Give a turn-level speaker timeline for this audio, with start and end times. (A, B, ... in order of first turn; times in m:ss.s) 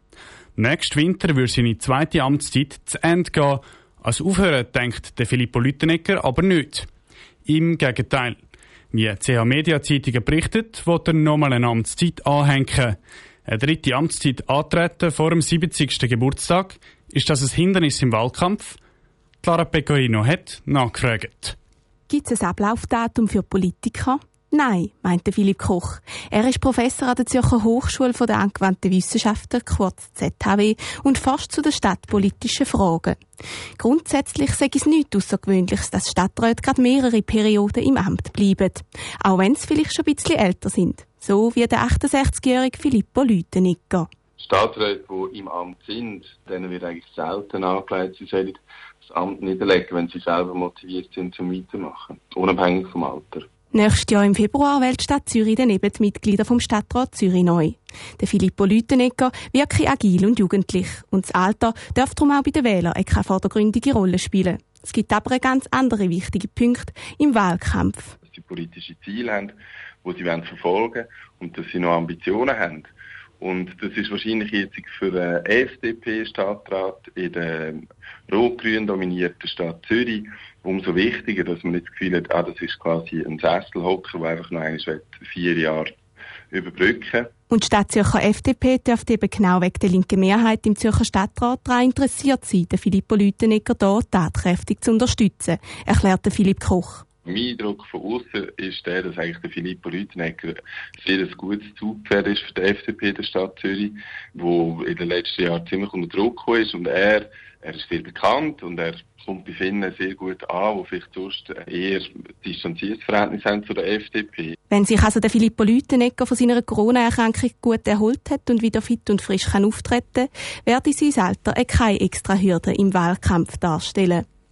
0:00.6-0:06.9 A
0:07.4-0:08.4 A
0:08.9-0:18.8 A
0:19.4-0:21.6 A
0:22.1-0:33.2 B
0:33.8-0:44.1 B
0:44.4-0:53.5 C
0:53.7-1:08.1 B
1:08.2-1:25.9 C
1:26.5-1:27.3 C
1:27.5-1:37.0 B
1:37.2-1:54.6 C
1:54.7-2:04.2 B